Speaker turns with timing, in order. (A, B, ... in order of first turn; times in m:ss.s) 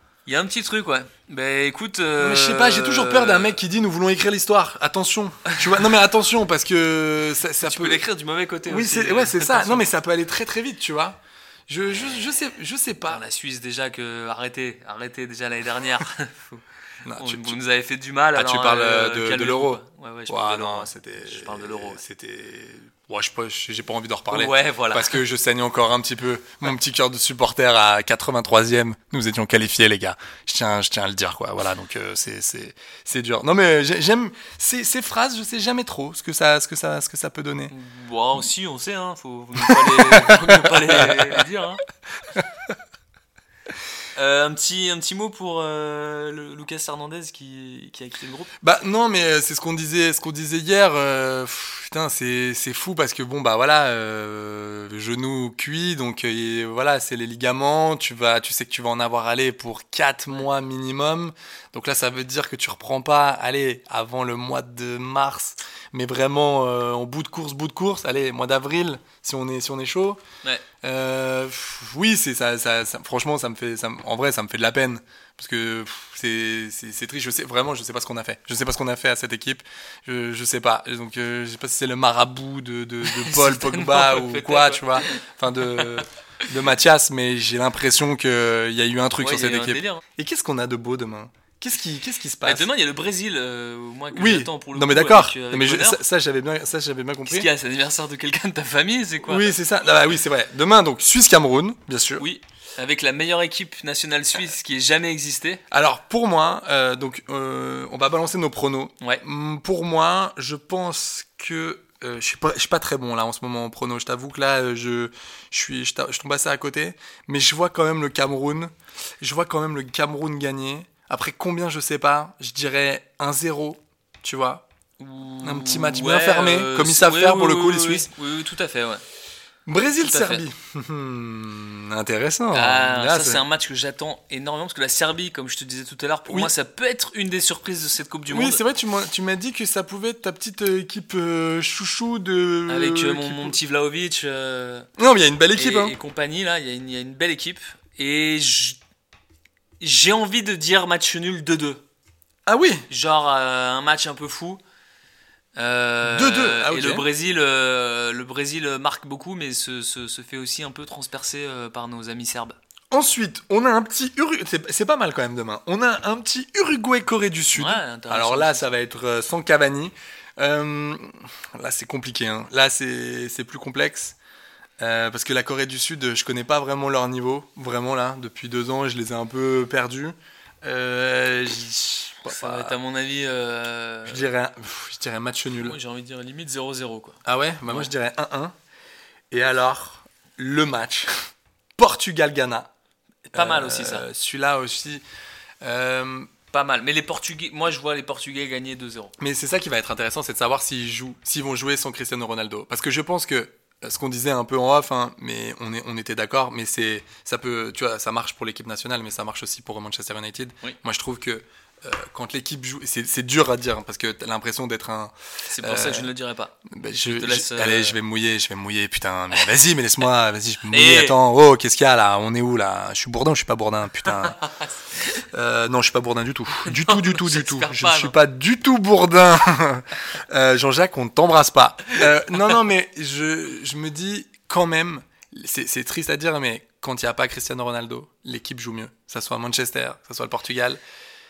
0:00.3-0:03.6 A
0:02.2-0:08.0 B
0:07.6-0:09.9 A
0:08.6-0:13.2 B
0:13.1-0:16.6 A
0:17.0-0:17.6 B
0:17.2-0:22.0 A
0:18.4-0:37.7 B
0:24.3-0:25.2 A
0:37.7-0:41.8 A
0:39.6-0:41.4 B
0:44.2-0:48.5 A
0:48.6-1:10.2 B
1:10.8-1:32.7 B
1:23.1-1:25.1 A
1:29.2-1:30.0 A
1:32.4-1:36.0 A
1:34.1-1:37.5 B
1:37.3-1:39.6 A
1:39.2-1:42.3 B
1:42.2-1:45.6 A
1:45.7-2:04.6 B
2:05.0-2:09.0 A
2:05.4-2:08.1 B
2:09.7-2:13.4 B
2:10.0-2:10.4 A
2:12.5-2:18.6 A
2:16.3-2:16.5 B
2:18.3-2:23.6 B
2:22.7-2:24.9 A
2:25.0-2:26.0 B
2:25.6-2:28.8 A
2:29.8-2:31.8 A
2:32.5-2:32.8 B
2:32.9-2:34.6 A
2:35.6-2:42.6 A
2:36.0-2:37.1 B
2:42.9-2:54.2 B
2:47.6-2:48.7 A
2:54.8-3:02.8 B
3:02.3-3:04.3 A
3:04.1-3:05.8 B
3:05.6-3:07.9 A
3:07.2-3:08.6 B
3:09.3-3:11.1 B
3:11.8-3:12.7 B
3:13.3-3:15.0 B
3:13.3-3:14.0 A
3:15.6-3:16.3 B
3:16.5-3:19.1 A
3:19.2-3:36.1 B
3:35.5-3:38.0 A
3:36.7-3:44.4 B
3:40.7-3:41.2 A
3:45.3-4:00.8 B
3:46.7-3:48.2 A